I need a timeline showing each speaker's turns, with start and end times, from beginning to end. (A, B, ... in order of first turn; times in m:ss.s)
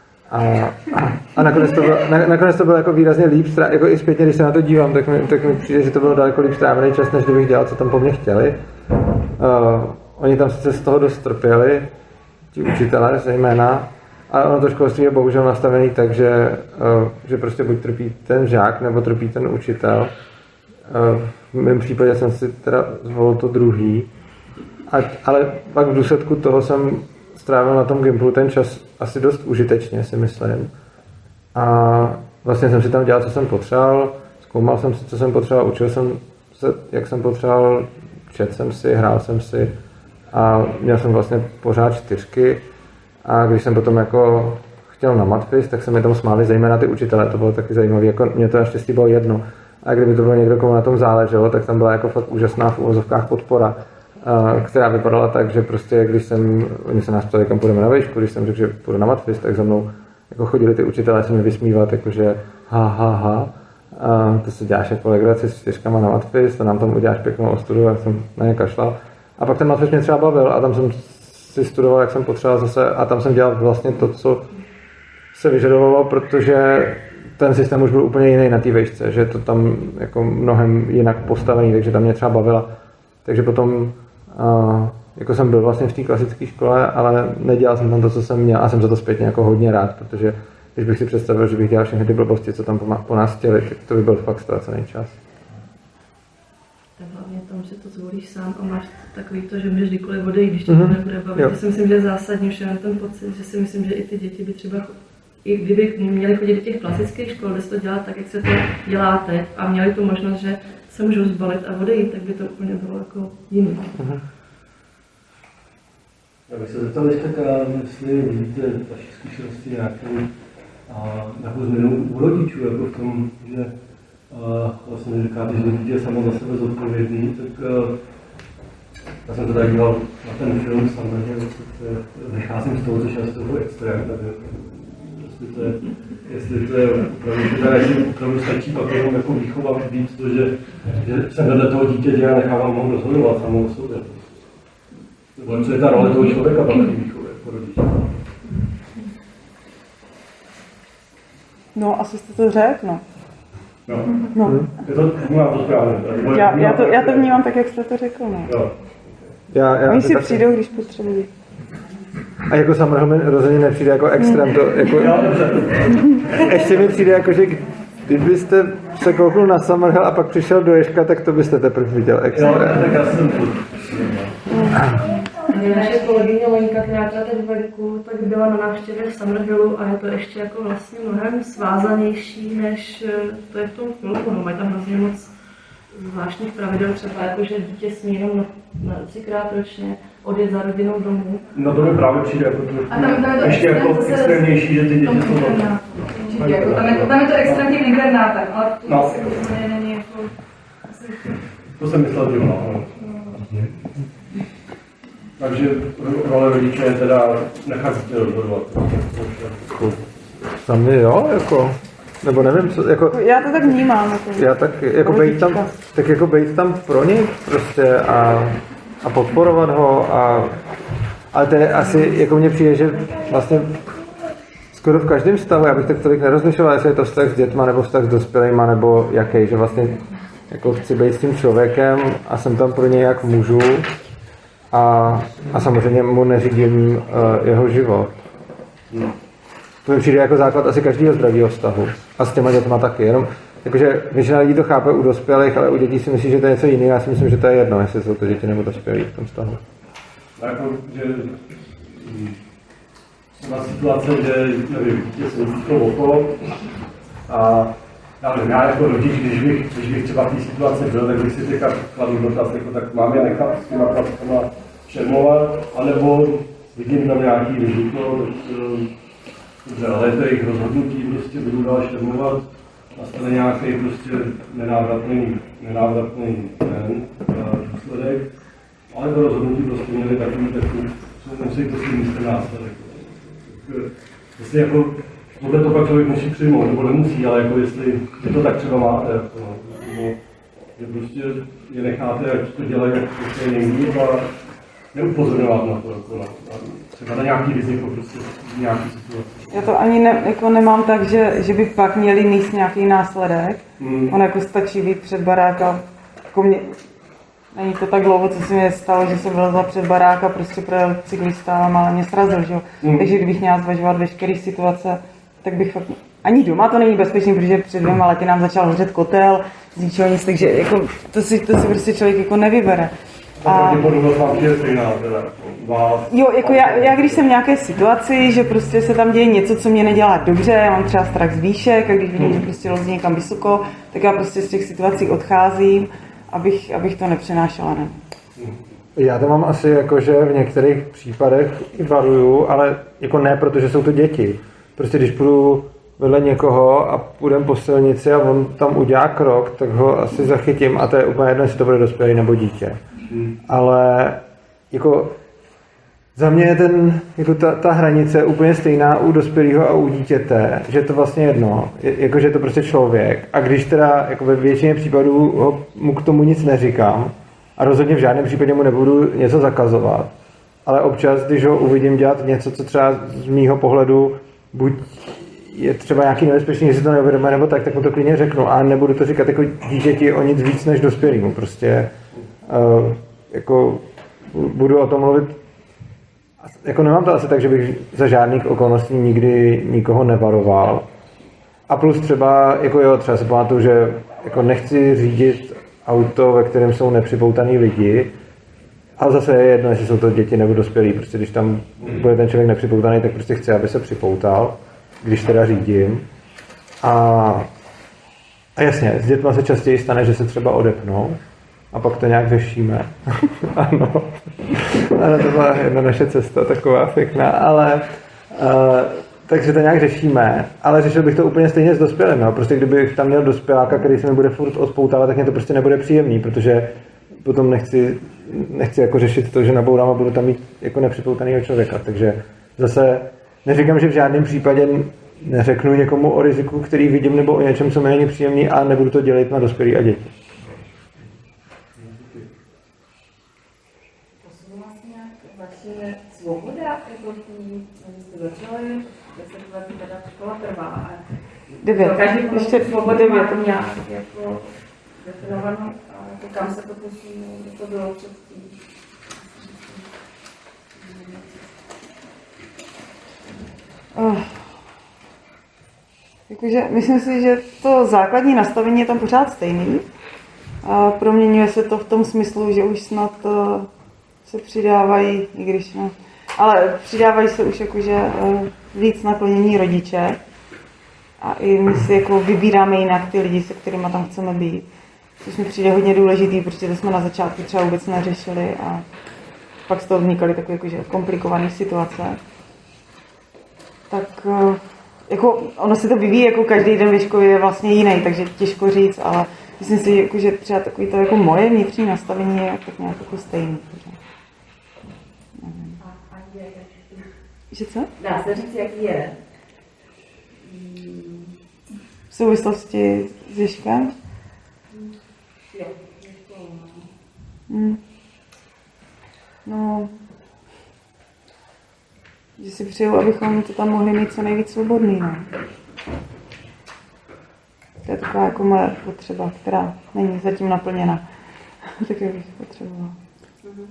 0:00.3-0:08.6 A
0:09.4-0:11.9 A
0:12.5-0:20.1 A
0:20.9-0:24.1 A
0:24.9-0:30.7 A
0:31.5-0:39.8 A
0:40.3-0:42.6 A
0:43.2-1:14.5 A
1:15.3-1:22.7 A
1:23.2-1:35.2 A
1:37.0-1:53.9 B
1:40.7-1:41.5 A
1:56.5-2:00.3 C
2:00.9-2:03.7 C
2:04.3-2:08.0 C
2:09.2-2:24.4 C
2:25.4-2:28.1 C
2:31.8-2:33.0 D
2:34.4-2:34.6 D
2:34.4-2:34.7 A
2:34.8-2:37.4 C
2:36.3-2:38.6 D
2:38.4-2:38.7 C
2:39.5-2:40.5 A
2:39.9-2:41.3 D
2:42.4-2:45.3 A
2:44.2-2:44.5 D
2:44.8-2:47.1 C
2:45.8-2:46.4 D
2:46.3-2:53.0 A
2:52.3-2:54.3 C
2:54.5-2:54.8 D
2:55.5-3:05.3 B
3:05.9-3:11.5 B
3:11.5-3:17.8 C
3:12.9-3:20.3 E
3:18.8-3:19.4 C
3:20.9-3:21.3 E
3:21.8-3:22.9 C
3:23.0-3:23.4 E
3:25.4-3:29.9 C
3:30.6-3:33.2 A
3:33.1-3:35.7 D
3:34.4-3:40.6 A
3:41.3-3:43.8 A
3:44.7-3:53.9 A
3:54.7-3:58.1 A
3:59.8-4:09.6 A
4:10.4-4:12.4 C
4:13.4-4:16.4 C
4:17.3-4:28.9 C
4:29.6-4:38.3 C
4:38.9-4:50.2 C
4:50.8-4:54.3 C
4:54.9-4:59.7 C
4:59.5-5:06.7 D
5:03.8-5:04.2 C
5:07.5-5:22.9 D
5:12.8-5:13.1 C
5:23.4-5:27.3 C
5:23.4-5:24.0 D
5:26.1-5:38.0 D
5:39.0-5:52.8 A
5:53.4-5:55.2 A
5:56.1-6:10.1 A
6:10.6-6:21.9 A
6:22.4-6:25.4 A
6:26.4-6:30.9 A
6:31.7-6:38.1 A
6:39.0-6:46.0 A
6:46.8-6:47.5 A
6:48.6-6:51.2 A
6:51.7-7:20.1 A
7:21.8-7:22.3 C
7:24.2-7:31.0 F
7:31.6-7:33.5 D
7:31.8-7:34.4 F
7:35.0-7:38.5 F
7:40.9-7:41.2 F
7:43.9-7:44.2 D
7:46.3-7:49.8 D
7:50.6-7:53.7 D
7:54.3-8:00.2 D
8:01.2-8:04.6 D
8:05.2-8:08.8 D
8:09.7-8:12.2 D
8:13.9-8:24.0 D
8:25.4-8:25.7 D
8:27.5-8:27.9 D
8:28.1-8:28.6 F
8:32.1-8:33.9 D
8:37.5-8:37.8 D
8:39.4-8:39.9 D
8:42.4-8:45.3 D
8:47.8-8:51.0 D
8:51.6-8:52.9 D